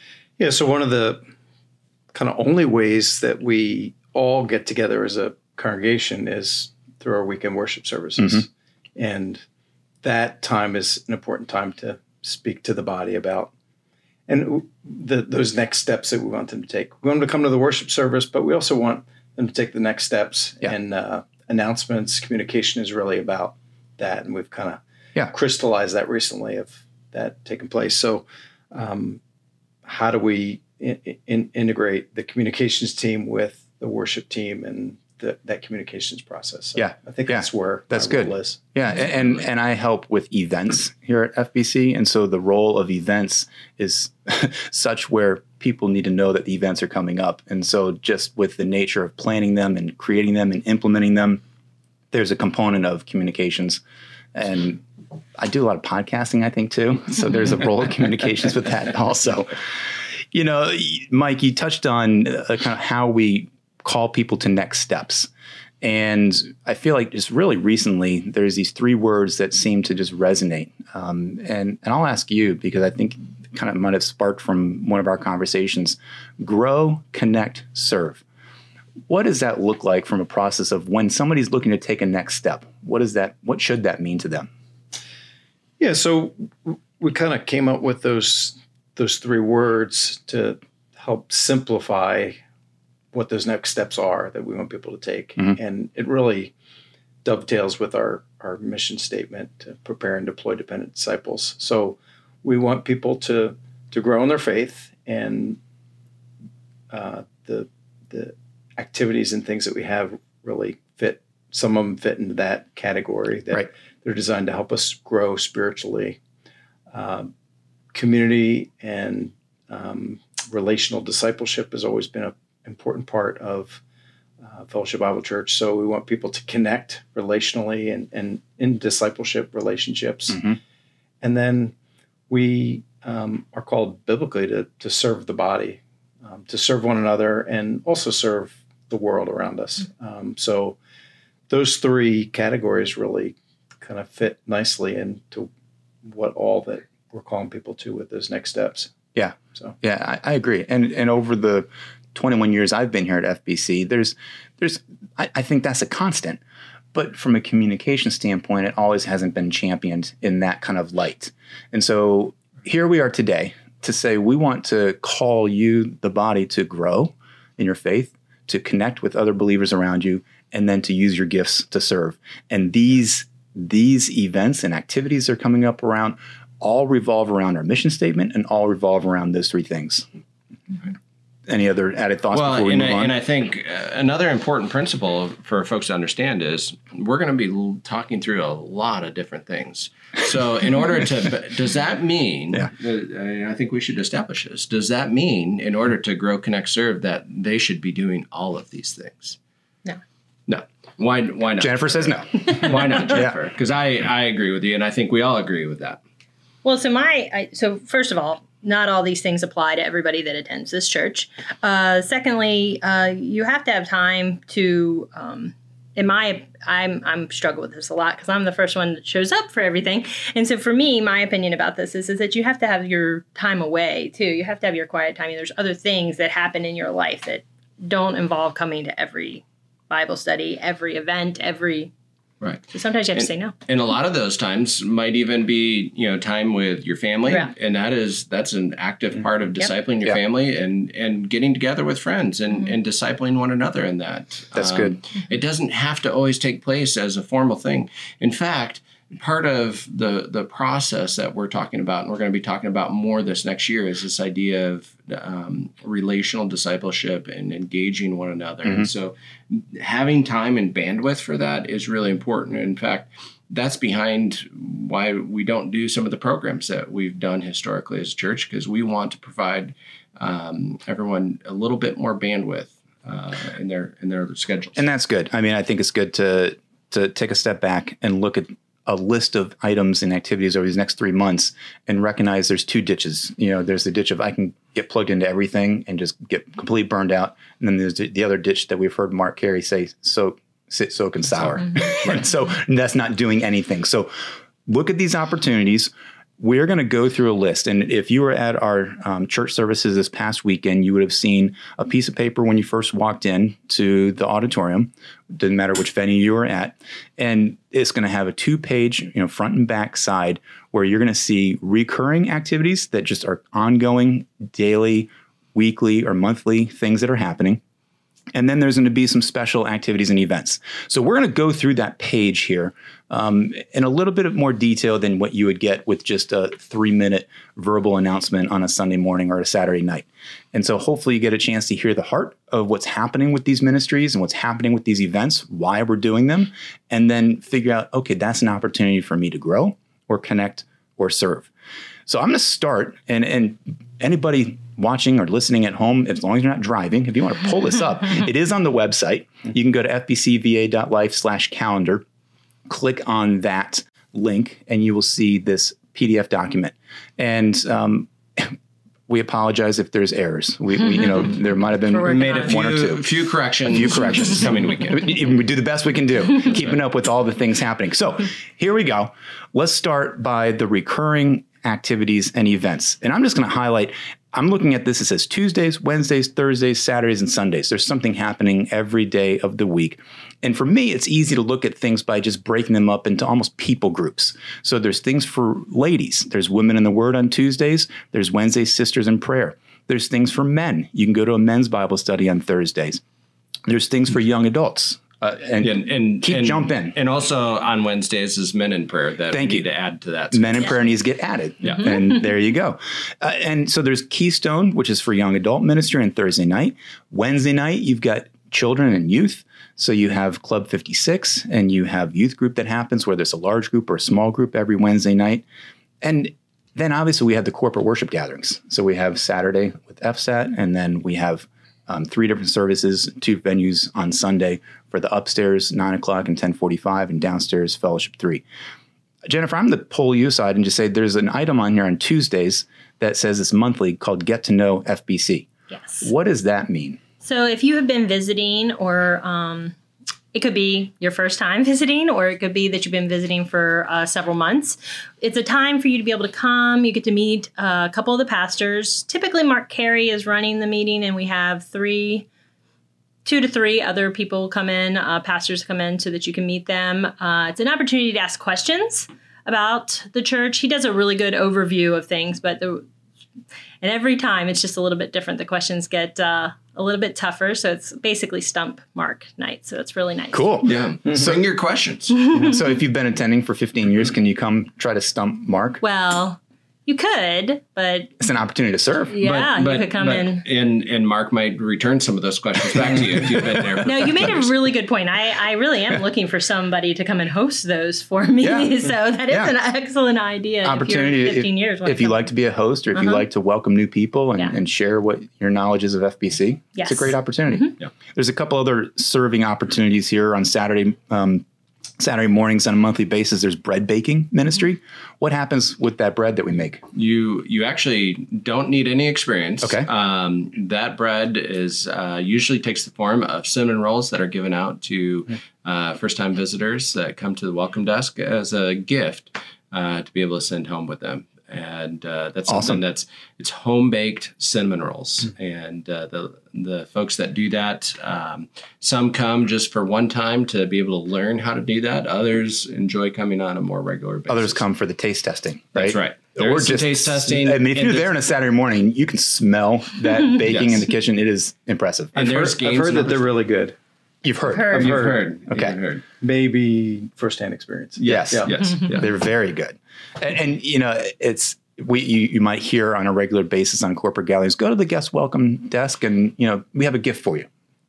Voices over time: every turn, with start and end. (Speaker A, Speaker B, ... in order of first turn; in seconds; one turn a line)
Speaker A: 0.4-1.2
Speaker A: 2.1-9.4
Speaker A: 10.0-13.5
Speaker A: 14.3-29.2
Speaker A: 29.8-38.6
Speaker B: 36.8-51.4
Speaker B: 52.1-53.8
Speaker B: 54.3-54.8
Speaker B: 55.4-59.5
Speaker B: 60.3-65.3
Speaker B: 65.8-78.2
Speaker B: 79.1-84.5
Speaker A: 85.8-92.4
Speaker A: 93.1-96.5
Speaker A: 97.2-105.6
Speaker A: 106.9-116.2
Speaker A: 116.9-117.3
Speaker A: 117.9-123.8
Speaker A: 124.4-130.4
Speaker B: 130.3-130.6
Speaker A: 131.2-131.7
Speaker A: 132.3-140.8
Speaker A: 141.5-145.5
Speaker A: 146.0-148.9
Speaker B: 149.1-156.4
Speaker B: 156.9-180.1
Speaker B: 181.5-183.1
Speaker C: 182.3-199.4
Speaker C: 200.5-206.0
Speaker B: 201.6-202.4
Speaker B: 203.1-203.3
Speaker D: 206.6-231.9
Speaker D: 232.7-233.5
Speaker C: 233.2-274.8
Speaker B: 244.6-244.9
Speaker B: 274.8-317.6
Speaker B: 318.3-341.5
Speaker B: 342.1-352.0
Speaker B: 352.7-358.6
Speaker B: 359.1-363.0
Speaker D: 361.9-362.5
Speaker C: 362.0-365.1
Speaker B: 363.7-393.0
Speaker B: 393.7-396.9
Speaker C: 395.6-400.8
Speaker B: 399.3-399.6
Speaker B: 400.3-415.4
Speaker C: 401.6-401.9
Speaker B: 416.0-428.4
Speaker B: 429.2-435.5
Speaker D: 435.7-436.1
Speaker B: 436.0-437.0
Speaker D: 437.2-439.7
Speaker D: 440.3-452.3
Speaker D: 453.2-462.8
Speaker D: 463.8-470.5
Speaker B: 470.3-470.8
Speaker C: 470.6-472.2
Speaker B: 472.3-475.8
Speaker D: 475.8-478.1
Speaker B: 478.2-479.1
Speaker D: 479.1-480.4
Speaker C: 479.2-484.4
Speaker D: 483.8-492.3
Speaker B: 488.4-488.8
Speaker B: 489.3-489.5
Speaker B: 490.6-501.4
Speaker D: 492.9-493.2
Speaker D: 496.8-497.7
Speaker B: 502.0-506.8
Speaker C: 506.9-534.6
Speaker B: 509.6-509.9
Speaker B: 522.5-522.8
Speaker B: 534.3-542.1
Speaker C: 535.7-538.1
Speaker C: 540.4-540.9
Speaker C: 542.1-543.4
Speaker A: 542.1-543.8
Speaker B: 544.2-545.8
Speaker A: 544.5-545.3
Speaker C: 544.6-546.0
Speaker A: 546.2-548.6
Speaker C: 548.0-549.1
Speaker B: 548.0-557.5